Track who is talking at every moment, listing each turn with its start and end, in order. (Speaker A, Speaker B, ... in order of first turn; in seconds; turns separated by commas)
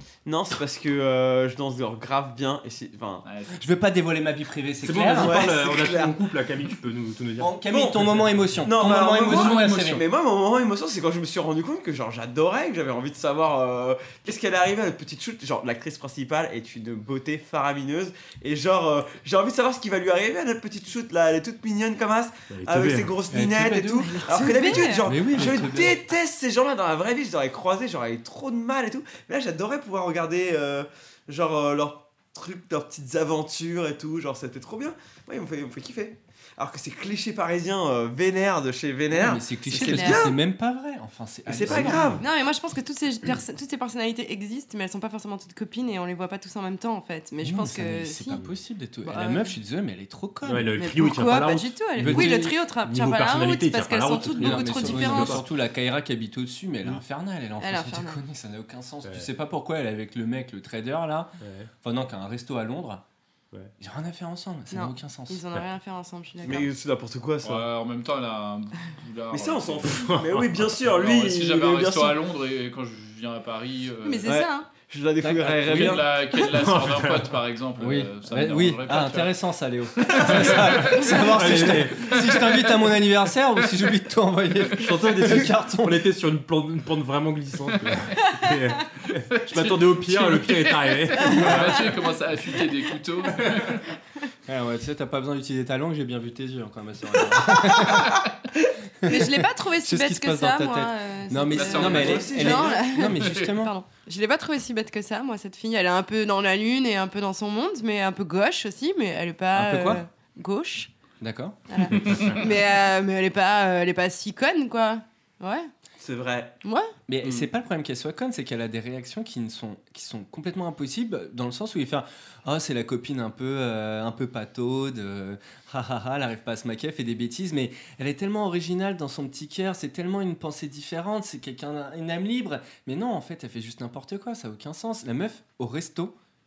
Speaker A: 0.2-3.2, Speaker B: 3.2-3.5, Speaker C: 3.6-5.4, Speaker D: 4.8-7.5, Speaker A: 5.1-6.2, Speaker C: 7.4-10.0, Speaker A: 7.7-40.4, Speaker B: 9.2-9.7, Speaker D: 22.5-23.1, Speaker C: 23.3-24.1, Speaker E: 24.0-25.1, Speaker C: 24.9-26.0, Speaker C: 39.1-42.2, Speaker E: 39.7-40.2, Speaker A: 41.5-42.2, Speaker D: 41.7-42.0, Speaker E: 42.2-48.4, Speaker C: 47.4-50.7, Speaker E: 49.0-49.5, Speaker D: 50.4-55.4, Speaker E: 50.7-55.4, Speaker C: 52.0-52.5, Speaker C: 54.3-61.3, Speaker E: 57.6-58.2, Speaker D: 61.4-61.7, Speaker C: 61.8-63.0, Speaker C: 63.8-65.4, Speaker E: 64.7-66.7, Speaker A: 66.4-67.7, Speaker B: 67.4-70.1, Speaker A: 69.3-72.2, Speaker D: 69.9-70.8, Speaker B: 70.9-74.2, Speaker E: 74.0-74.7, Speaker A: 74.8-76.2, Speaker C: 75.2-76.0, Speaker B: 75.7-79.3, Speaker D: 76.5-77.3, Speaker C: 77.8-86.0, Speaker B: 80.2-81.1, Speaker D: 81.0-82.1, Speaker B: 82.1-82.6, Speaker D: 84.8-91.9, Speaker B: 89.0-93.9, Speaker E: 91.3-91.6, Speaker C: 94.5-98.2, Speaker C: 99.0-99.3, Speaker E: 99.0-110.9, Speaker C: 99.8-103.7, Speaker B: 101.5-102.3, Speaker A: 101.7-102.8, Speaker B: 103.2-103.5, Speaker C: 109.5-110.0, Speaker C: 111.2-111.6, Speaker E: 111.7-115.7, Speaker B: 112.0-112.3, Speaker A: 116.0-116.6, Speaker E: 116.6-116.9, Speaker C: 117.1-136.1, Speaker A: 117.2-117.5